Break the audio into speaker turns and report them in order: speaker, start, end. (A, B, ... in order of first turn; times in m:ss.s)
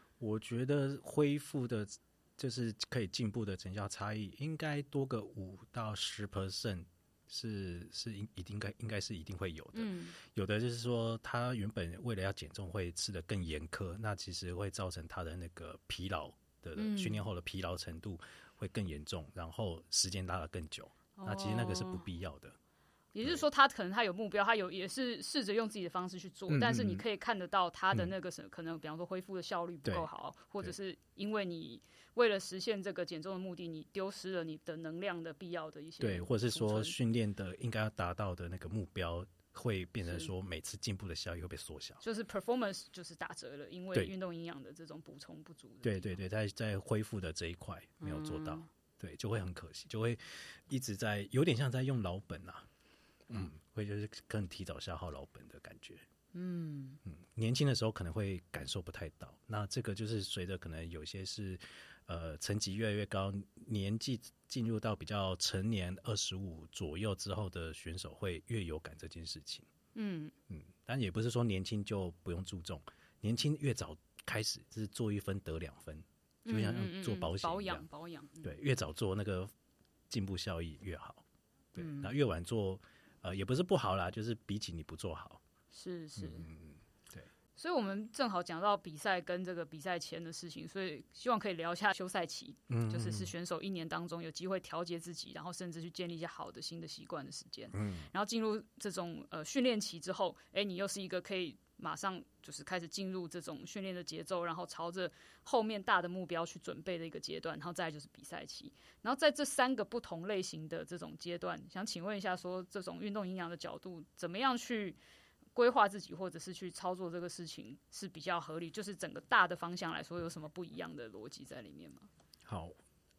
0:00.2-0:22.6 A
0:09.7-0:10.2 B
0:16.8-0:17.2 B
0:21.2-0:22.1 B
0:23.2-0:37.0 B
0:26.5-0:27.0 A
0:36.0-0:42.0 A
0:40.0-0:40.3 B
0:42.0-0:46.2 B
0:45.8-0:52.7 A
0:48.0-0:48.7 B
0:53.3-0:56.0 A
0:56.3-0:57.0 B
0:57.0-1:09.7 A
1:10.0-1:10.3 B
1:10.5-1:17.9 A
1:16.5-1:18.6 B
1:18.4-1:19.5 A
1:20.1-1:21.2 A
1:21.7-1:25.4 A
1:21.8-1:22.1 B
1:25.7-1:26.5 B
1:26.2-1:27.3 A
1:27.6-1:55.0 B
1:32.7-1:33.3 A
1:37.7-1:38.1 A
1:55.6-2:02.1 B
2:02.5-2:02.8 A